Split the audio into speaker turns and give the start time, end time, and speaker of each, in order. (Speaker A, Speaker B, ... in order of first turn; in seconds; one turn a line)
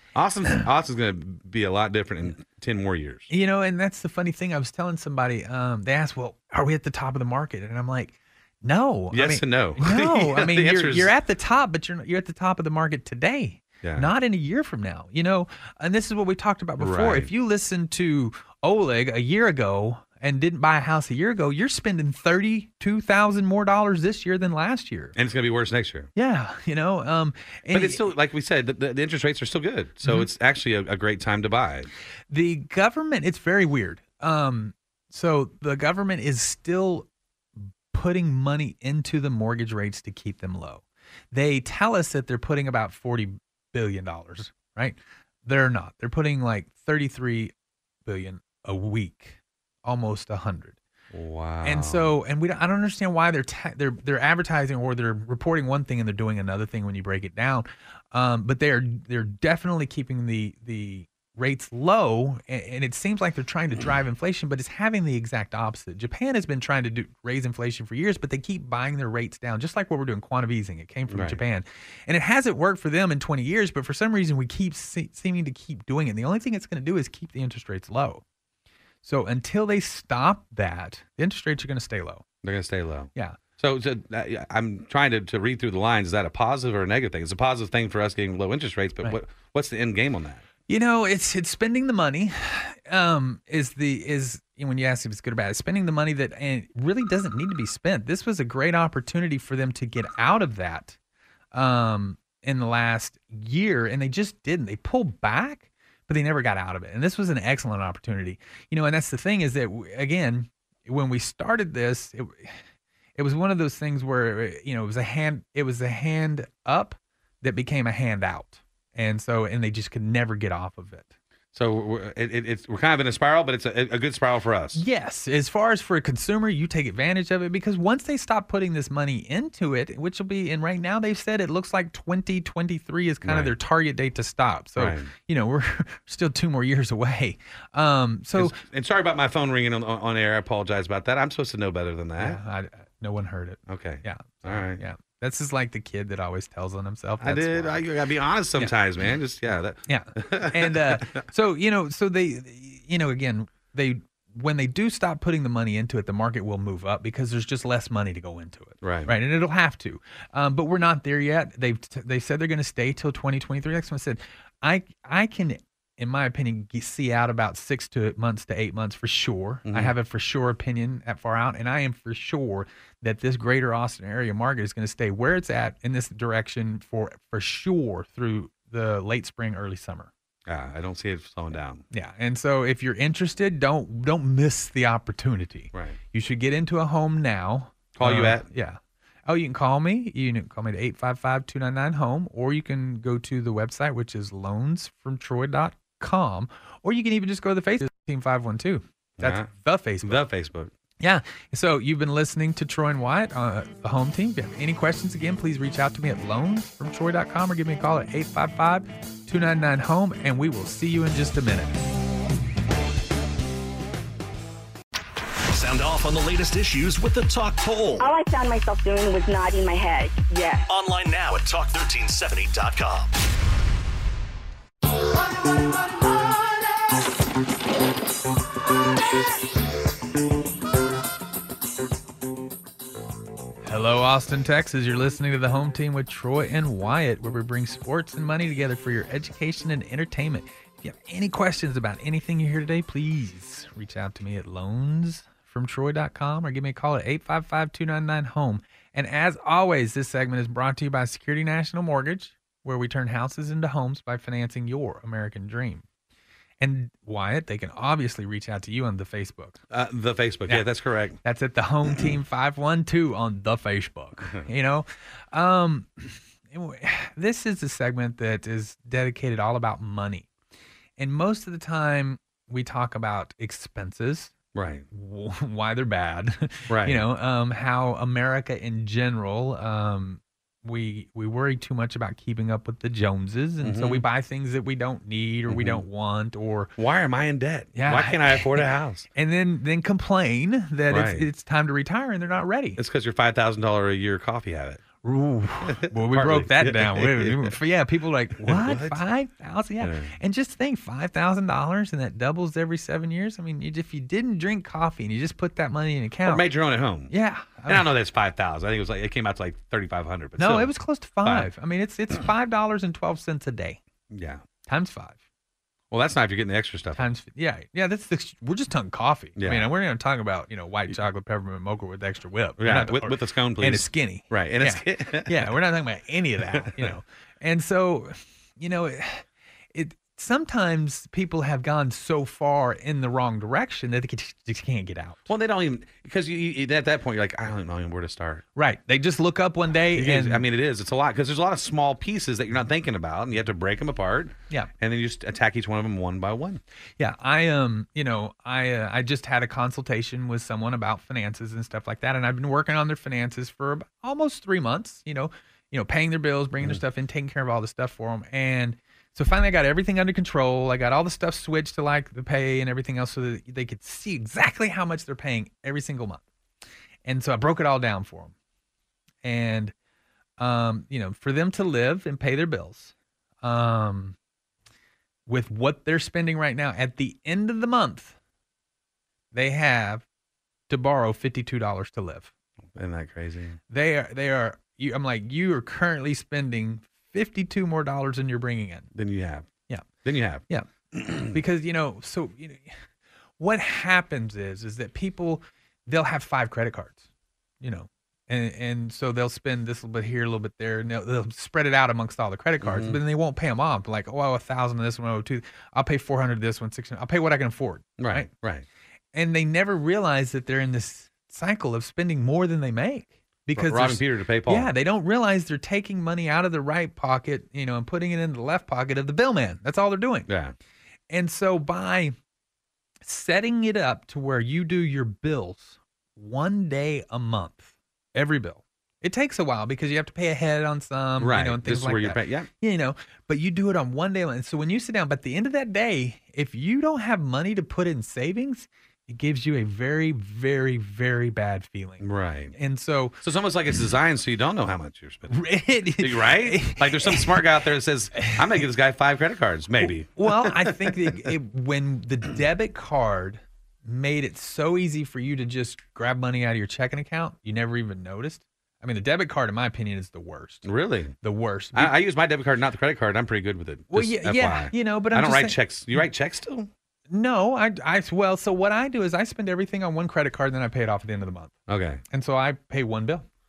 Speaker A: 0.1-3.3
Speaker B: 3.3-25.1
Speaker A: 9.1-11.1
Speaker A: 13.8-14.1
Speaker A: 16.8-17.3
Speaker A: 25.1-26.1
Speaker B: 26.1-28.1
Speaker A: 27.7-31.9
Speaker B: 32.3-37.1
Speaker B: 37.6-47.5
Speaker B: 48.1-50.8
Speaker A: 51.1-52.1
Speaker B: 51.6-78.2
Speaker A: 71.1-71.4
Speaker B: 79.0-82.2
Speaker A: 82.4-90.4
Speaker B: 90.7-101.0
Speaker B: 101.5-112.6
Speaker B: 113.2-121.1
Speaker A: 121.5-124.8
Speaker B: 124.7-138.6
Speaker A: 133.2-133.5
Speaker A: 134.8-135.1
Speaker A: 138.4-142.4
Speaker B: 142.2-147.9
Speaker A: 143.7-144.8
Speaker A: 147.2-151.2
Speaker B: 149.9-180.1
Speaker A: 158.8-159.1
Speaker A: 169.7-169.9
Speaker A: 180.5-181.8
Speaker B: 181.9-200.2
Speaker A: 187.9-188.5
Speaker A: 199.2-199.5
Speaker A: 200.0-200.7
Speaker B: 201.0-211.8
Speaker C: 215.5-218.1
Speaker D: 218.0-220.7
Speaker C: 220.7-223.1
Speaker B: 233.6-255.8
Speaker B: 256.6-259.6
Speaker A: 259.7-261.2
Speaker B: 261.2-270.3
Speaker B: 271.0-274.3
Speaker A: 274.6-274.9
Speaker B: 274.9-286.7
Speaker A: 276.7-277.0
Speaker A: 283.6-284.1
Speaker A: 285.5-285.8
Speaker A: 286.8-289.1
Speaker B: 287.8-292.8
Speaker A: 290.9-291.3
Speaker A: 292.8-294.8
Speaker B: 295.0-306.5
Speaker A: 295.6-297.5
Speaker A: 298.4-299.0
Speaker A: 299.8-300.1
Speaker A: 306.2-307.1
Speaker B: 307.1-307.9
Speaker A: 307.7-310.7
Speaker B: 310.4-313.8
Speaker A: 314.1-314.4
Speaker B: 314.7-315.2
Speaker A: 315.9-317.1
Speaker B: 317.0-335.3
Speaker A: 319.4-319.7
Speaker A: 322.6-325.5
Speaker A: 326.6-326.9
Speaker A: 335.3-338.4
Speaker B: 338.6-340.4
Speaker A: 339.9-346.6
Speaker B: 347.0-366.2
Speaker B: 367.1-368.3
Speaker B: 369.2-369.7
Speaker B: 370.4-374.2
Speaker B: 375.3-378.2
Speaker B: 379.3-380.1
Speaker B: 380.7-382.3
Speaker A: 382.7-383.6
Speaker B: 383.7-388.9
Speaker A: 388.9-389.5
Speaker A: 390.0-391.3
Speaker B: 390.5-392.8
Speaker B: 393.4-397.0
Speaker B: 397.6-408.3
Speaker A: 402.6-403.0
Speaker A: 408.0-408.7
Speaker B: 409.1-420.3
Speaker A: 413.6-414.7
Speaker A: 420.3-420.6
Speaker B: 421.1-422.1
Speaker B: 423.0-443.2
Speaker A: 431.2-432.5
Speaker A: 442.0-442.5
Speaker A: 443.2-445.4
Speaker B: 445.3-447.4
Speaker A: 446.0-451.3
Speaker B: 448.1-448.5
Speaker B: 449.8-460.7
Speaker A: 460.6-461.1
Speaker B: 461.2-461.9
Speaker A: 461.7-466.7
Speaker B: 463.9-465.6
Speaker B: 467.1-471.5
Speaker A: 471.7-472.0
Speaker B: 472.1-473.3